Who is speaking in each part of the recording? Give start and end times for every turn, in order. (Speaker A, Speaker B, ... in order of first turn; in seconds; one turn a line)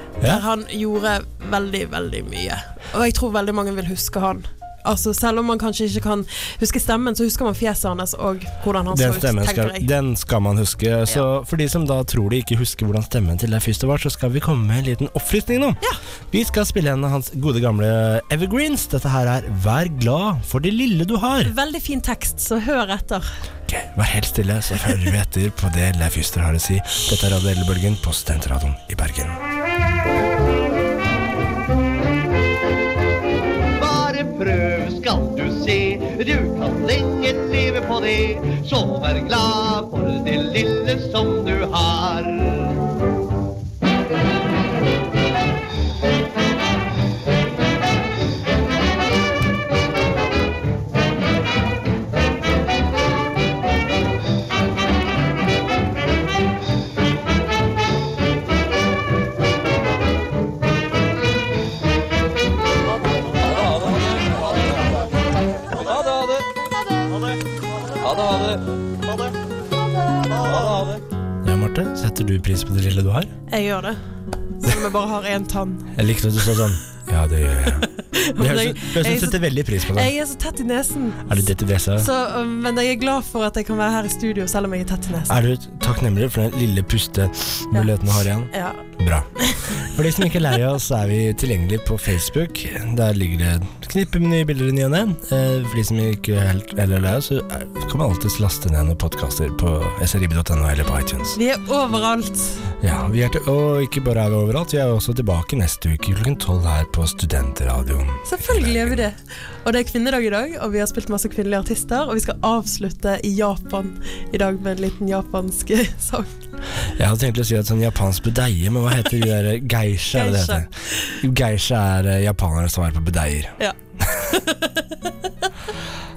Speaker A: 0.2-9.9
Speaker B: 8.9-15.8
Speaker B: 16.3-21.5
Speaker A: 21.4-23.3
Speaker B: 23.7-29.4
Speaker C: 33.8-42.8
Speaker B: 68.1-68.5
Speaker B: 70.4-73.3
Speaker A: 73.5-74.0
Speaker A: 74.6-75.9
Speaker B: 75.9-80.1
Speaker A: 77.9-85.4
Speaker B: 81.3-82.1
Speaker B: 85.3-89.3
Speaker A: 88.5-88.8
Speaker A: 89.4-89.9
Speaker B: 89.8-101.4
Speaker A: 101.3-102.7
Speaker B: 102.8-109.0
Speaker A: 108.3-116.5
Speaker B: 117.0-123.6
Speaker A: 120.1-121.2
Speaker A: 123.6-125.5